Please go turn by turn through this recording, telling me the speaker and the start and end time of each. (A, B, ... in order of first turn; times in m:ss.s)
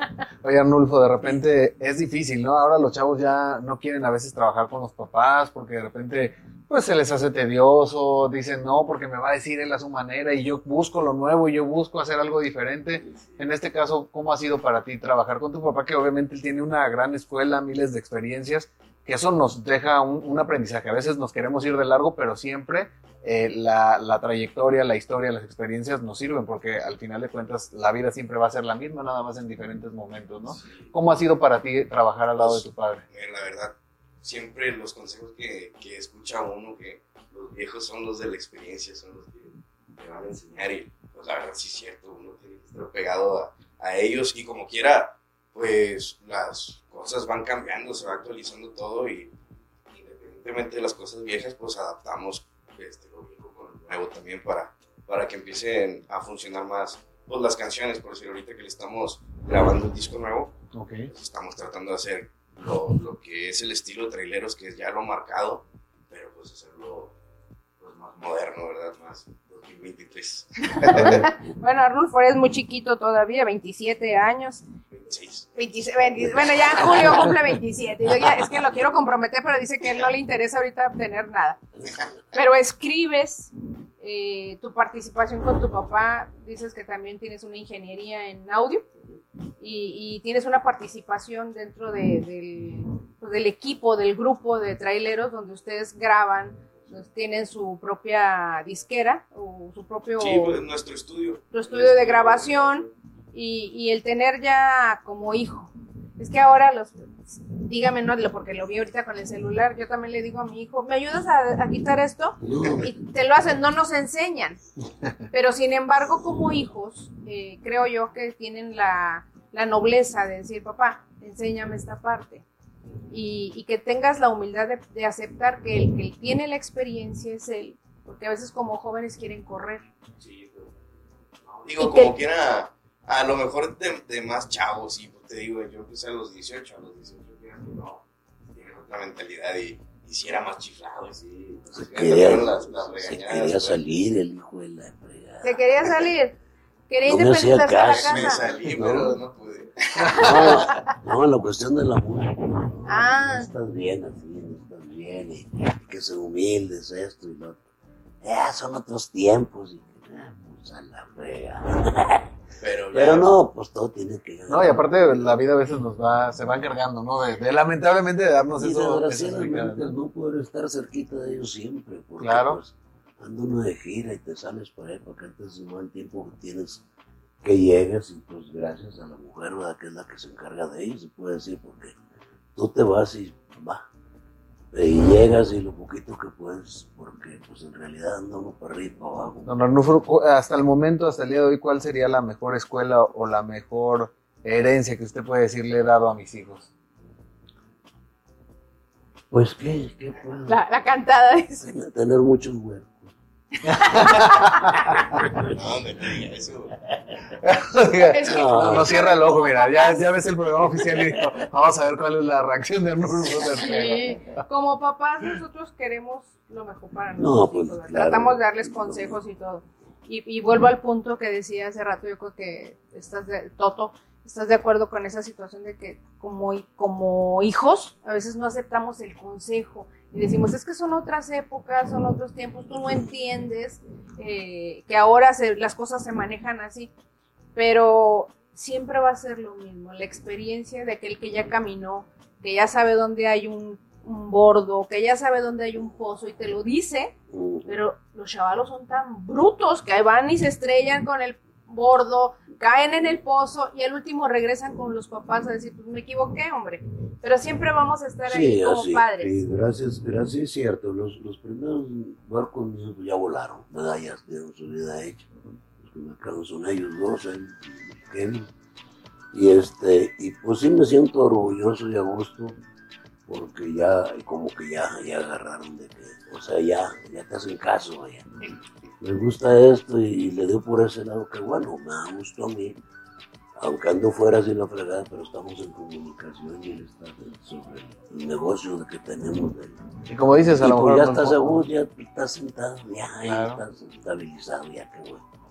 0:00.4-0:33.0 A
0:30.6-0:30.9 B
0:32.4-0:49.3 B
0:49.9-1:00.6 B
1:00.7-1:01.1 A
1:01.1-1:07.1 B
1:07.8-1:11.2 B
1:10.8-1:14.6 C
1:14.9-1:15.5 B
1:15.6-1:21.6 C
1:16.6-1:17.3 B
1:22.3-1:28.8 C
1:29.6-1:40.6 C
1:40.2-1:42.9 B
1:41.5-1:54.6 C
1:52.4-1:52.9 D
1:55.3-2:02.4 C
2:03.1-2:09.9 C
2:10.2-2:10.7 B
2:11.6-2:23.8 B
2:11.8-2:12.2 C
2:21.7-2:26.1 D
2:25.4-2:26.4 C
2:26.9-2:28.4 C
2:27.0-2:29.2 D
2:27.8-2:30.6 B
2:30.1-2:37.6 D
2:32.9-2:33.5 C
2:38.2-2:42.3 D
2:42.6-2:43.3 B
2:42.9-2:45.4 D
2:44.5-2:49.9 A
2:48.5-2:56.8 D
2:52.2-2:52.6 A
2:57.4-3:02.0 D
3:02.6-3:03.9 D
3:04.7-3:09.5 D
3:09.5-3:16.7 A
3:19.3-3:20.6 D
3:20.5-3:21.7 C
3:21.6-3:23.1 D
3:23.6-3:25.0 A
3:23.7-3:24.8 C
3:25.3-3:26.8 B
3:27.4-3:34.4 A
3:28.1-3:30.1 C
3:28.2-3:29.0 D
3:33.6-3:56.9 C
3:37.2-3:39.2 D
3:57.6-4:07.1 C
4:07.3-4:07.7 D
4:07.7-4:19.3 C
4:18.3-4:25.3 D
4:25.8-4:28.5 D
4:29.3-4:32.6 D
4:33.3-4:38.3 D
4:39.0-4:42.8 D
4:43.6-4:49.8 D
4:50.1-4:51.6 A
4:50.6-4:55.2 D
4:53.3-4:53.6 A